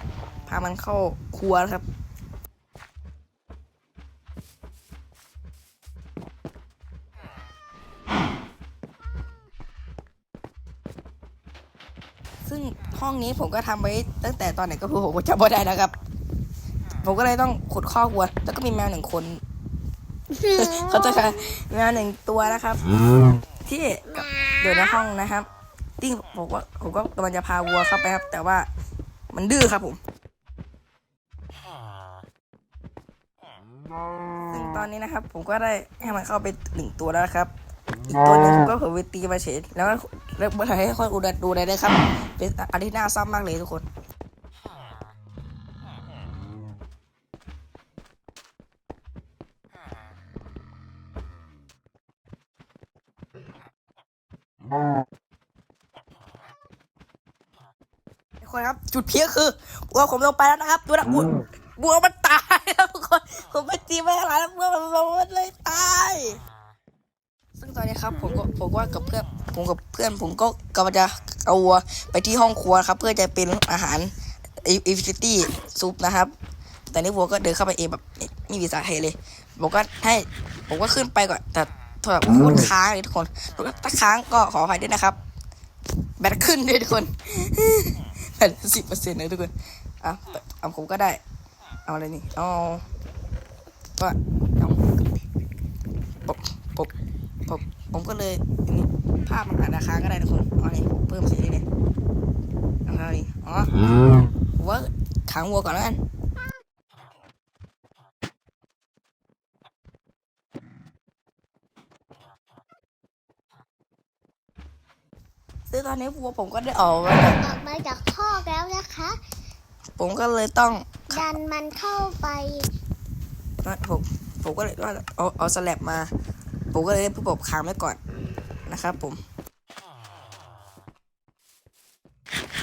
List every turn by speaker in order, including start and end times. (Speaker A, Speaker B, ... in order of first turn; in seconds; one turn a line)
Speaker A: 0.5-1.9
Speaker A: 12.4-15.9
Speaker A: 17.0-19.4
Speaker B: 20.3-21.3
Speaker A: 20.5-22.9
Speaker A: 23.6-25.5
Speaker A: 26.0-28.7
Speaker A: 29.3-30.0
Speaker A: 34.5-37.5
Speaker A: 38.1-43.9
Speaker A: 58.4-66.4
Speaker A: 67.6-74.1
Speaker A: 74.6-76.3
Speaker A: 76.9-85.2
Speaker A: 86.2-91.2
Speaker A: 91.9-92.8
Speaker A: 94.0-94.8
Speaker A: 96.3-96.9
Speaker A: 97.5-101.7
Speaker A: 102.9-103.7
Speaker A: 104.5-106.0
Speaker A: 115.7-117.4
Speaker B: 117.4-119.2
Speaker A: 120.0-121.2
Speaker B: 121.1-122.7
Speaker A: 123.6-126.1
Speaker A: 126.7-128.0
Speaker A: 128.7-129.2